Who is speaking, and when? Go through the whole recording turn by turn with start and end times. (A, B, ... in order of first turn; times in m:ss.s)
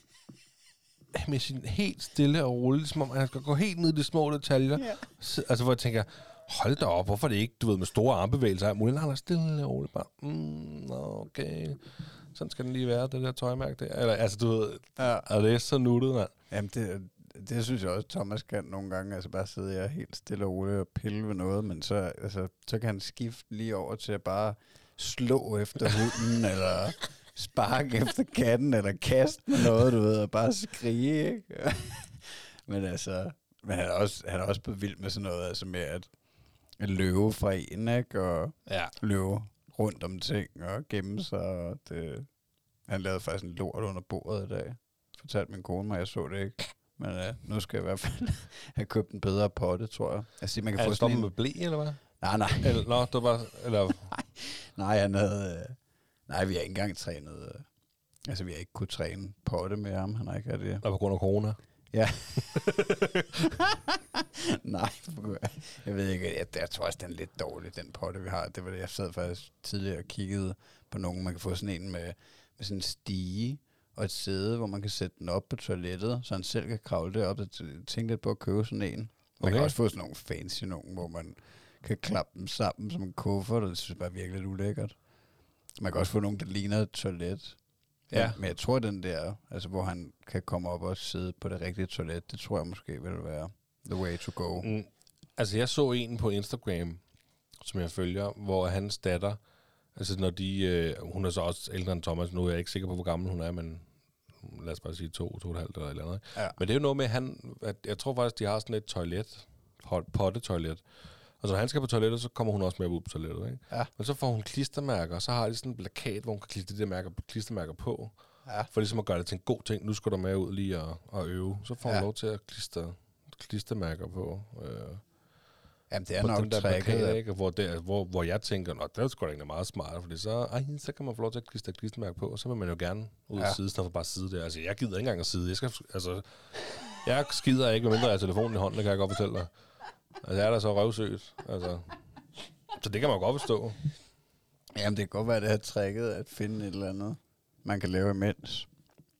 0:01.1-0:16.3 A
0:15.0-0:15.3 B
0:16.5-0:36.1 B
0:36.8-0:42.3 B
0:38.7-0:38.9 A
0:42.9-0:51.3 B
0:50.8-0:52.0 A
0:52.2-0:52.9 B
0:52.6-0:54.1 A
0:54.1-0:55.8 B
0:56.3-0:57.6 B
0:58.3-1:00.8 B
1:00.8-1:01.6 A
1:01.9-1:02.6 B
1:02.5-1:03.4 A
1:03.4-1:25.0 B
1:19.4-1:19.7 A
1:25.8-1:27.6 B
1:28.1-1:34.7 B
1:28.1-1:28.4 A
1:34.6-1:37.0 A
1:37.6-1:39.4 A
1:39.9-1:43.8 A
1:44.4-1:50.8 A
1:51.4-1:58.1 A
1:58.7-2:05.0 A
2:05.9-2:07.2 B
2:06.2-2:19.5 A
2:20.2-2:21.9 A
2:22.7-2:23.8 A
2:24.7-2:28.7 B